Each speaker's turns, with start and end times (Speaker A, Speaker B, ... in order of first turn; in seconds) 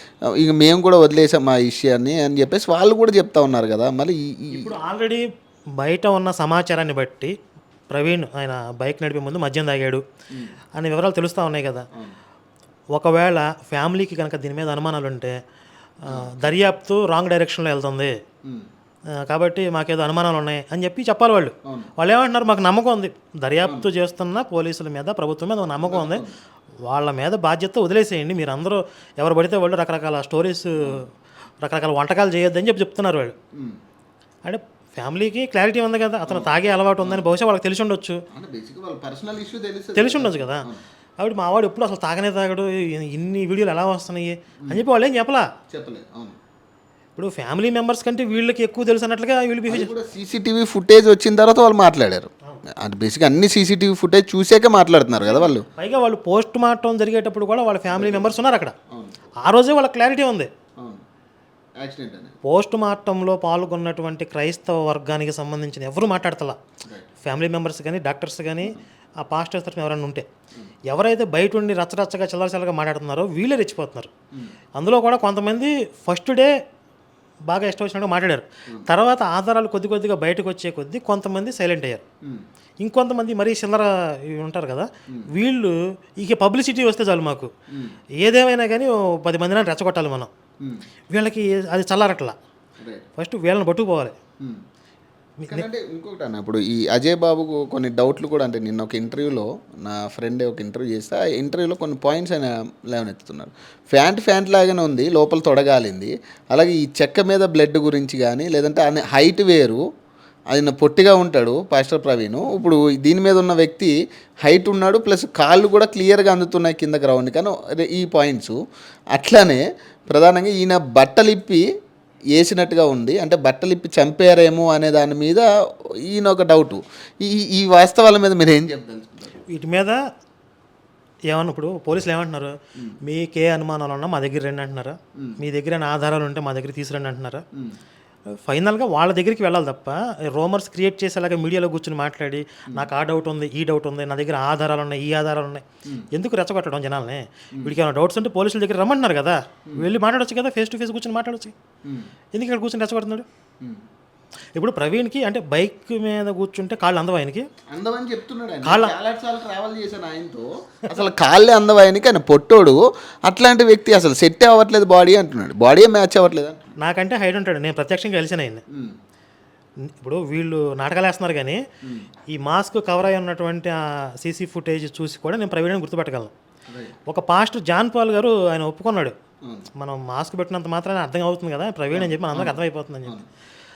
Speaker A: 0.3-4.7, 16.1-16.4, 21.6-21.9, 25.8-26.3, 33.5-33.8, 36.3-37.2, 38.3-40.8, 45.7-46.4, 49.7-55.6, 57.9-58.3, 58.9-59.3, 60.8-61.0, 61.8-62.4, 87.7-88.0, 92.8-93.0, 95.5-109.8, 110.5-113.9, 114.4-118.6, 119.1-121.6, 122.3-125.5, 126.0-129.4, 151.8-152.1, 157.7-166.7, 168.7-169.0, 171.8-172.1, 176.7-176.9, 179.4-179.7, 181.9-183.2
Speaker B: 4.5-5.2, 5.8-7.3, 7.9-10.0, 10.7-11.9, 12.9-15.4, 16.0-18.1, 19.1-26.2, 26.8-31.1, 31.6-33.3, 34.4-38.2, 39.9-40.7, 41.2-45.5, 47.1-49.9, 55.2-58.7, 59.4-60.5, 62.4-66.6, 67.2-70.3, 70.9-74.1, 74.8-76.5, 77.5-82.0, 82.8-87.5, 88.2-90.3, 91.1-92.4, 93.2-94.1, 129.5-130.0, 131.3-137.4, 138.3-151.5, 152.3-153.2, 154.6-157.5, 158.6-158.9, 166.8-168.6, 169.8-171.6, 172.3-176.3, 177.1-179.2, 179.8-183.2